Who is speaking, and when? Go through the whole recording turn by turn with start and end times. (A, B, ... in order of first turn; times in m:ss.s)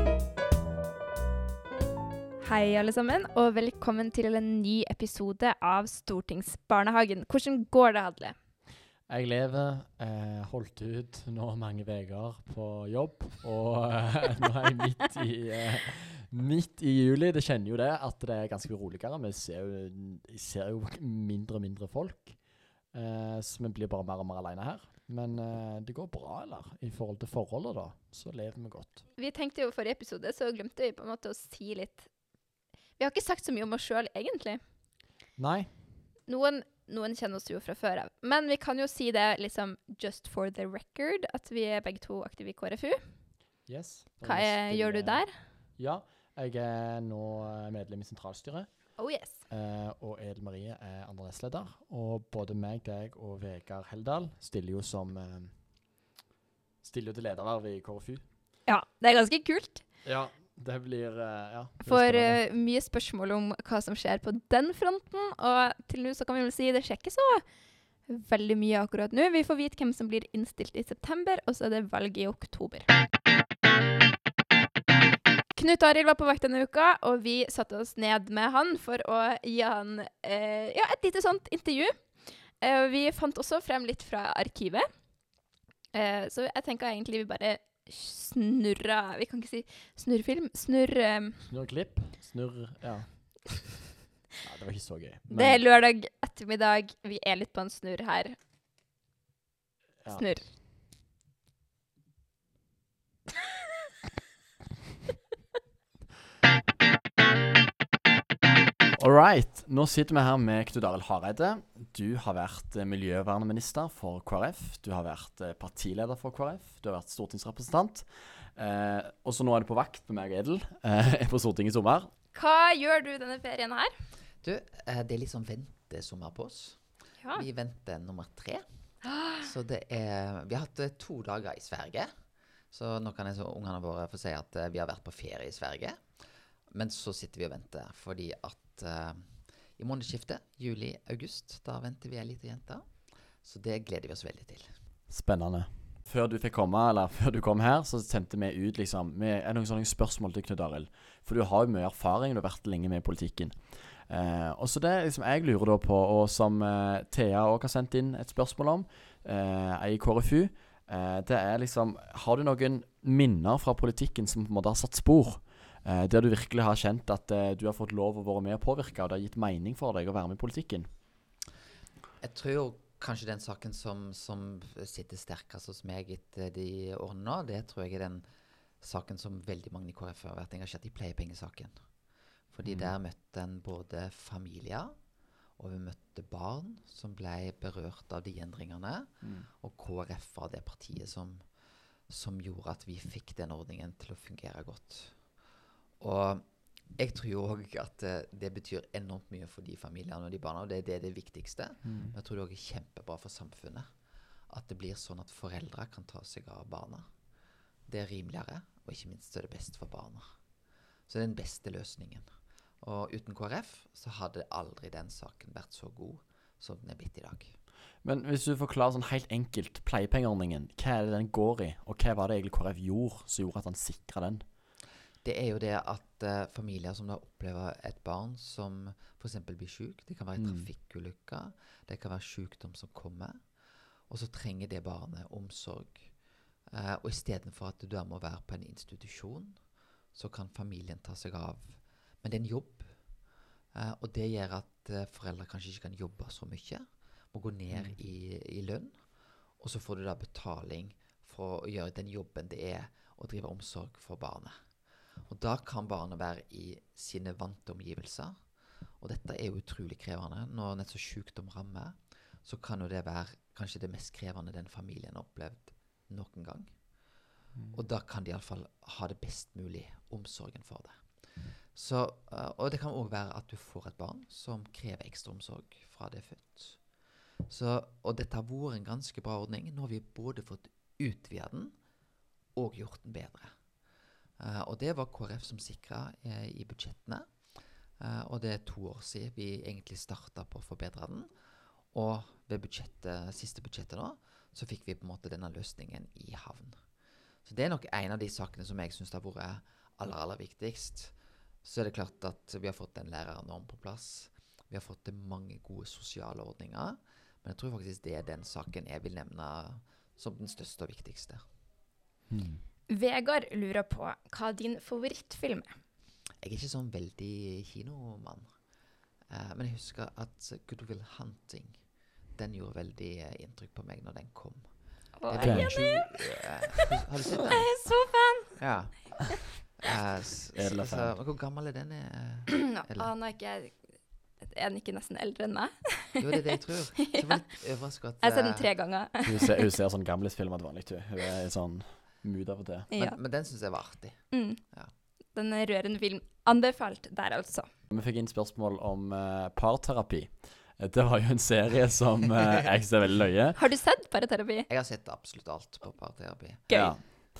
0:02.4-0:08.4 A
0:09.1-0:22.4 B
0:22.9-0:29.0 B
0:29.2-0:32.1 A
0:33.0-0:34.6 A
0:35.4-0:35.7 B
0:36.3-0:43.0 A
0:43.7-0:45.2 B
0:44.2-0:45.3 A
0:45.8-0:55.5 B
0:49.0-0:49.4 A
0:56.8-0:58.2 B
0:58.7-0:59.8 A
1:00.0-1:02.4 B
1:01.9-1:07.4 A
1:08.1-1:12.9 A
1:15.5-1:24.9 A
1:25.9-1:31.4 A
1:31.4-1:33.3 B
1:34.4-1:35.6 B
1:35.3-1:38.4 A
1:40.2-1:40.4 A
1:49.0-2:02.1 B
2:02.3-2:03.9 A
2:04.4-2:08.6 C
2:09.0-2:09.4 A
2:09.4-2:12.1 C
2:12.7-2:16.1 C
2:16.7-2:22.9 C
2:23.4-2:24.7 C
2:25.1-2:50.9 B
2:52.2-2:58.2 C
2:58.8-3:01.8 C
3:02.5-3:05.0 C
3:02.6-3:02.9 B
3:05.6-3:11.4 C
3:09.2-3:09.5 B
3:12.1-3:15.3 C
3:16.0-3:16.4 C
3:17.0-3:23.9 C
3:21.8-3:22.2 B
3:24.5-3:27.1 C
3:27.9-3:30.3 C
3:31.1-3:32.3 C
3:32.8-3:37.6 C
3:38.0-3:44.4 B
3:45.2-3:53.4 C
3:50.4-3:50.7 B
3:54.1-4:14.6 C
4:07.7-4:08.0 B
4:15.3-4:18.5 C
4:19.0-4:26.8 C
4:27.7-4:36.9 C
4:37.5-4:41.8 C
4:42.6-4:43.6 C
4:44.4-4:47.3 C
4:48.0-4:51.3 C
4:51.9-4:56.8 C
4:57.4-5:11.4 C
5:12.3-5:12.6 B
5:12.9-5:15.7 A
5:16.4-5:18.5 C
5:19.3-5:21.8 C
5:22.4-5:24.7 C
5:25.2-5:26.8 A
5:25.3-5:27.7 C
5:25.4-5:25.8 B
5:27.5-5:28.6 A
5:28.6-5:33.1 C
5:30.6-5:31.2 B
5:32.6-5:33.9 A
5:34.4-5:36.2 A
5:36.2-5:38.7 C
5:37.1-5:37.4 A
5:38.2-5:39.6 A
5:39.2-5:42.9 B
5:42.9-5:44.9 C
5:44.3-5:44.6 A
5:45.3-5:47.7 A
5:47.9-5:53.6 B
5:53.6-5:54.7 A
5:54.7-5:56.7 C
5:56.7-5:57.0 A
5:56.7-5:57.1 B